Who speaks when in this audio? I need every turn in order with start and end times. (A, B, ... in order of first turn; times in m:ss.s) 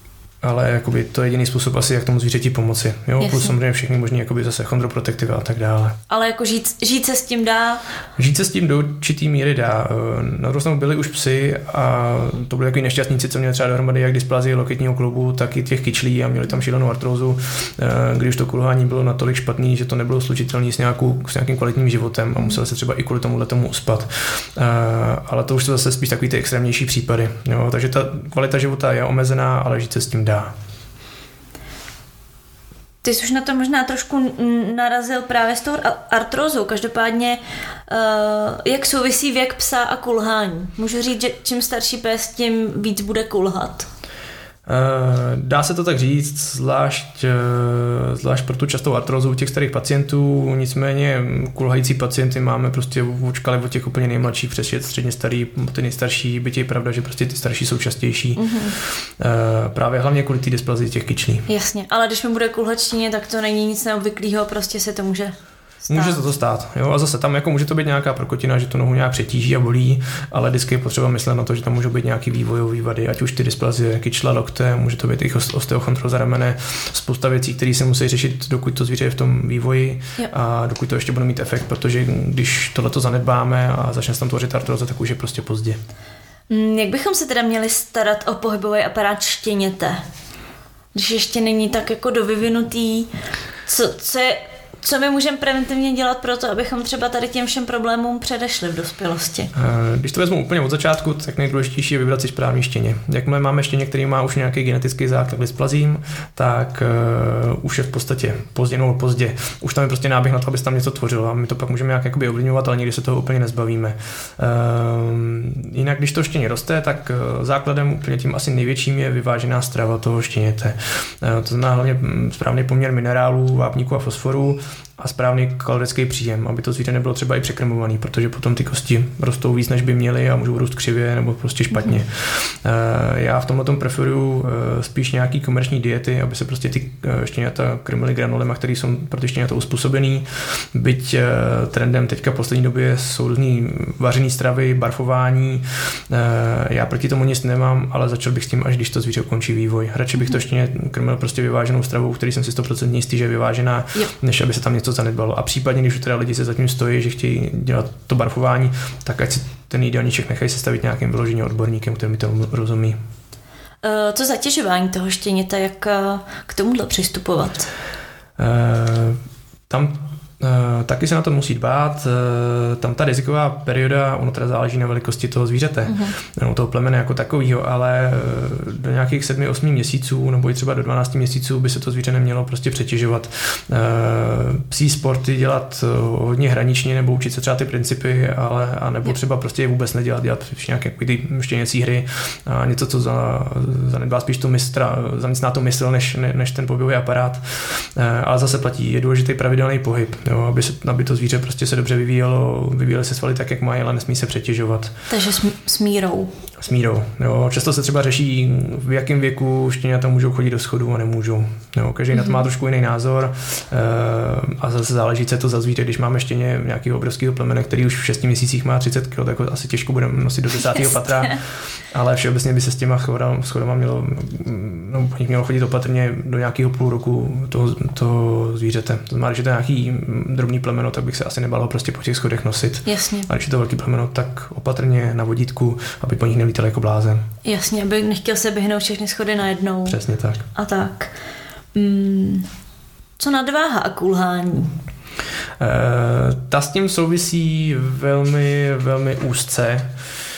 0:00.4-0:06.0 A
0:03.2-0:03.5 B
0:06.1-0:07.8 B
0:08.2-0:30.5 A
0:33.0-0:43.9 B
0:44.6-1:01.4 A
0:58.4-0:58.8 B
1:01.5-1:06.2 B
1:05.9-1:25.8 A
1:26.5-1:30.0 B
1:30.9-1:33.1 B
1:33.6-1:39.5 B
1:39.5-2:43.0 A
2:43.8-2:47.7 B
2:48.4-3:24.9 A
2:55.8-2:56.1 B
3:25.1-3:26.3 B
3:26.6-3:57.2 A
3:52.8-3:53.3 B
3:57.4-4:00.0 B
3:59.8-4:00.4 A
4:00.5-4:01.1 B
4:01.7-4:02.5 B
4:03.2-4:04.8 B
4:05.6-4:09.9 A